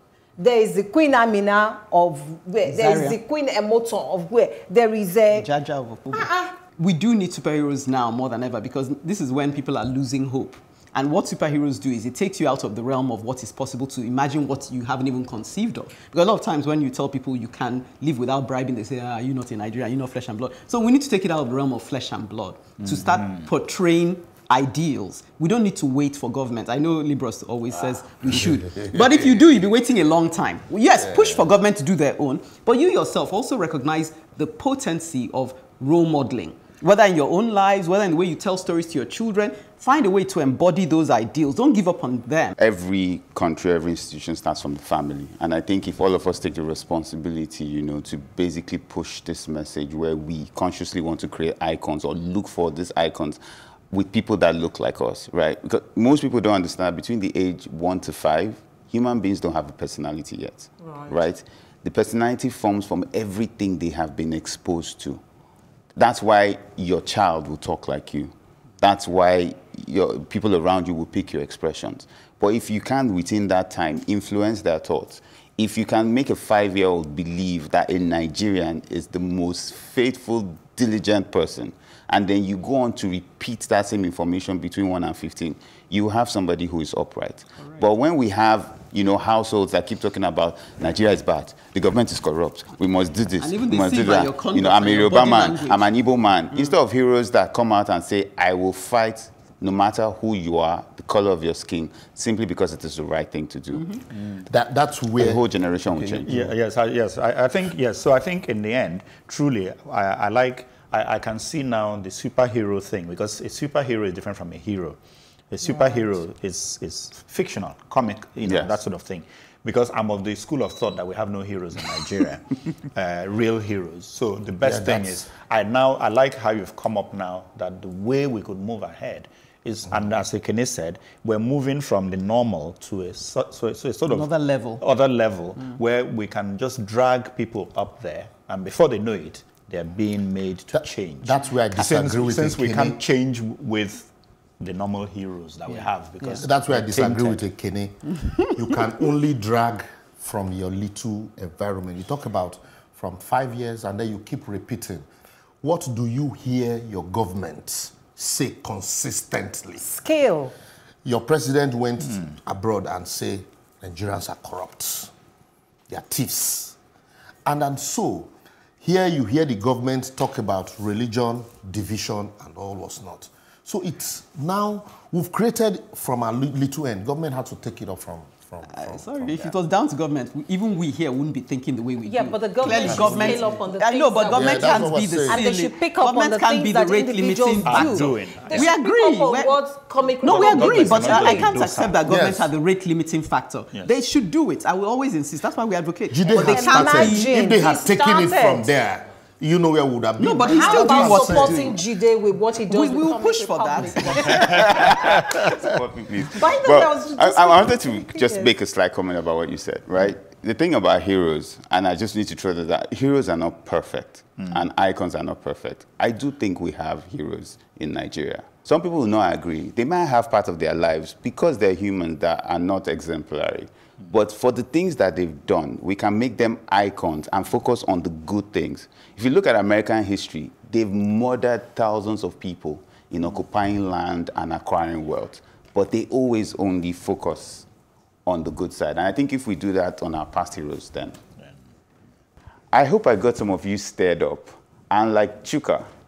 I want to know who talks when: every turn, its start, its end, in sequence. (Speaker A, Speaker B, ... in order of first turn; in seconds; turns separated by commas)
Speaker A: 0.4-5.5, Speaker B: 2.6-3.2, Speaker B: 5.3-42.5, Speaker A: 6.1-6.5, Speaker C: 22.8-23.5, Speaker D: 28.3-29.4, Speaker D: 31.1-31.5, Speaker E: 42.6-53.4, Speaker E: 53.9-65.2, Speaker A: 60.8-61.1, Speaker E: 66.0-103.9, Speaker B: 93.4-95.9, Speaker D: 104.4-105.4, Speaker E: 105.2-106.3, Speaker C: 106.0-115.0, Speaker D: 106.1-106.5, Speaker C: 115.5-134.3, Speaker A: 115.6-116.0, Speaker E: 118.4-118.8, Speaker D: 124.6-125.2, Speaker B: 134.1-134.8, Speaker C: 134.8-147.4, Speaker D: 140.7-143.0, Speaker B: 145.7-146.4, Speaker D: 146.3-155.1, Speaker D: 155.6-159.8, Speaker A: 159.8-160.5, Speaker D: 161.0-165.1, Speaker D: 165.9-166.8, Speaker D: 167.4-179.5, Speaker B: 178.6-187.9, Speaker A: 182.0-191.6, Speaker D: 182.7-183.5, Speaker D: 184.3-185.4, Speaker C: 187.6-188.7, Speaker B: 188.5-189.6, Speaker B: 190.2-197.3, Speaker C: 190.3-192.0, Speaker D: 192.1-192.5, Speaker D: 196.1-201.8, Speaker A: 196.3-198.7, Speaker B: 200.2-201.8, Speaker A: 200.4-204.6, Speaker B: 202.7-204.4, Speaker C: 204.2-205.4, Speaker E: 204.4-237.7, Speaker A: 206.2-208.5, Speaker E: 238.2-241.2, Speaker E: 242.7-245.8